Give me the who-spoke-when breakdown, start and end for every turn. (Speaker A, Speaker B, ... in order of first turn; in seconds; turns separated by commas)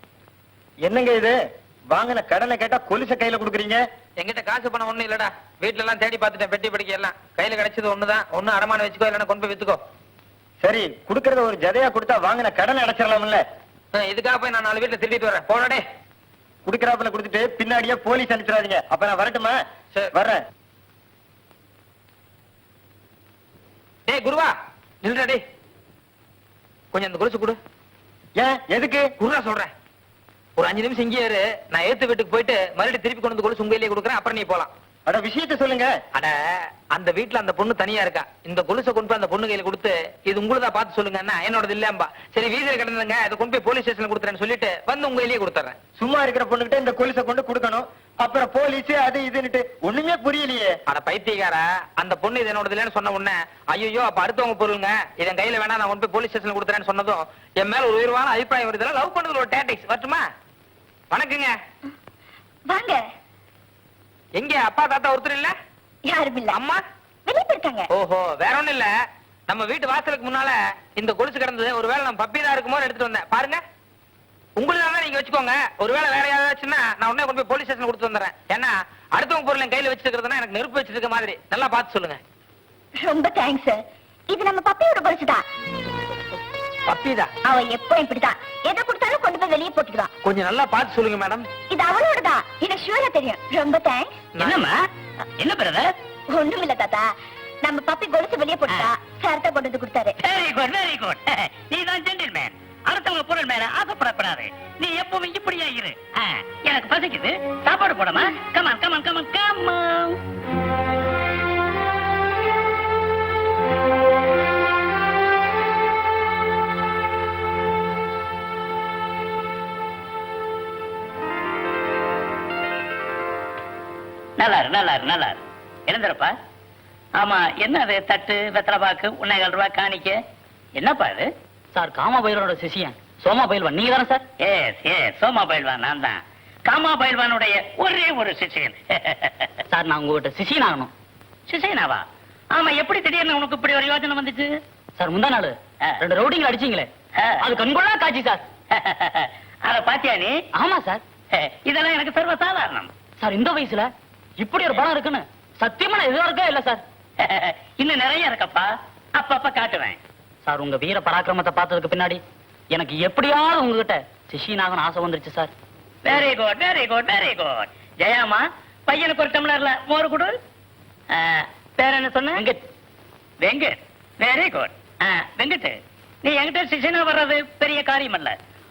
Speaker A: 0.8-1.4, Speaker A: 1.9-3.8, Speaker B: 4.2-9.8, Speaker A: 10.6-13.4, Speaker B: 13.9-15.8, Speaker A: 16.6-19.6, Speaker A: 20.1-20.4, Speaker B: 24.1-25.4, Speaker B: 26.9-27.6, Speaker A: 28.4-29.0, Speaker B: 29.2-29.7, Speaker B: 30.6-34.7, Speaker A: 35.1-35.9, Speaker B: 36.9-45.8, Speaker A: 46.0-50.7, Speaker B: 50.9-60.2, Speaker B: 61.1-61.5, Speaker C: 62.7-63.0, Speaker B: 64.3-65.5, Speaker C: 66.0-66.6, Speaker B: 66.5-66.8, Speaker C: 67.3-67.9, Speaker B: 67.9-68.9, Speaker B: 69.5-73.6, Speaker B: 74.6-82.2, Speaker C: 83.0-85.4, Speaker B: 86.9-87.3, Speaker C: 87.4-90.1, Speaker B: 90.2-91.5, Speaker C: 91.7-94.1, Speaker B: 94.3-94.6, Speaker D: 94.4-94.7, Speaker D: 95.4-95.9, Speaker C: 96.3-97.1, Speaker C: 97.6-100.2, Speaker D: 100.2-110.2, Speaker D: 124.4-126.3, Speaker D: 127.2-130.2, Speaker D: 130.8-131.3, Speaker E: 131.7-134.2, Speaker D: 134.4-139.5, Speaker E: 139.7-140.9, Speaker D: 141.5-144.5, Speaker E: 145.0-148.4, Speaker D: 147.2-147.4, Speaker D: 148.7-150.4, Speaker E: 150.6-151.0, Speaker D: 151.3-152.9, Speaker E: 153.2-156.8, Speaker D: 157.2-160.0, Speaker E: 160.4-165.5, Speaker D: 166.1-170.4, Speaker D: 171.1-172.4, Speaker D: 173.4-178.3